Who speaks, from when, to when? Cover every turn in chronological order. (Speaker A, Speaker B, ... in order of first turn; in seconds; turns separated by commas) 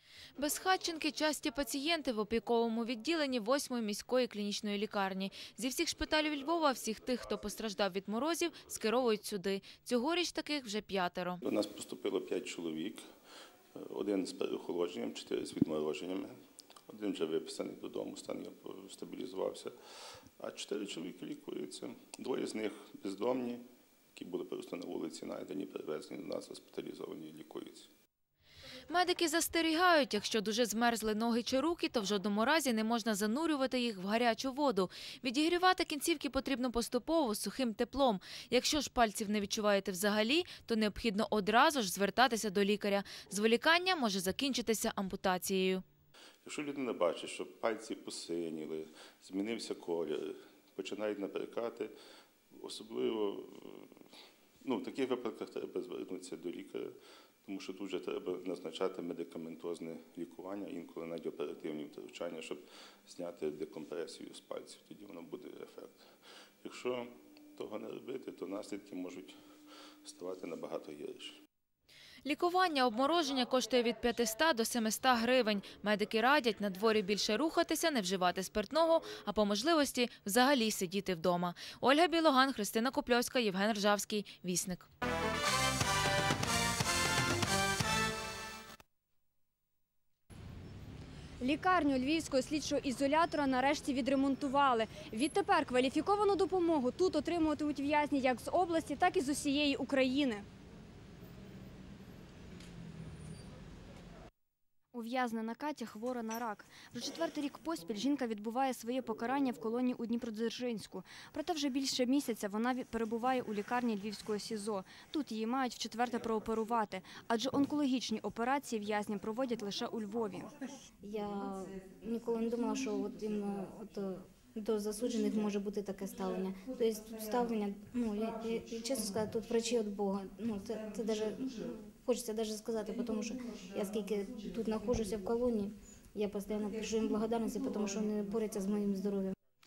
Speaker A: 0.4-11.4, Speaker B: 11.4-13.0, Speaker B: 13.8-16.3, Speaker B: 16.9-19.7, Speaker B: 20.4-23.6, Speaker B: 24.1-27.9, Speaker A: 28.9-45.8, Speaker B: 46.4-51.9, Speaker B: 52.5-53.9, Speaker B: 54.6-56.9, Speaker B: 57.4-66.1, Speaker B: 66.6-69.3, Speaker B: 70.0-71.3, Speaker A: 72.2-84.9, Speaker C: 91.4-100.4, Speaker C: 104.9-120.5, Speaker D: 121.0-139.3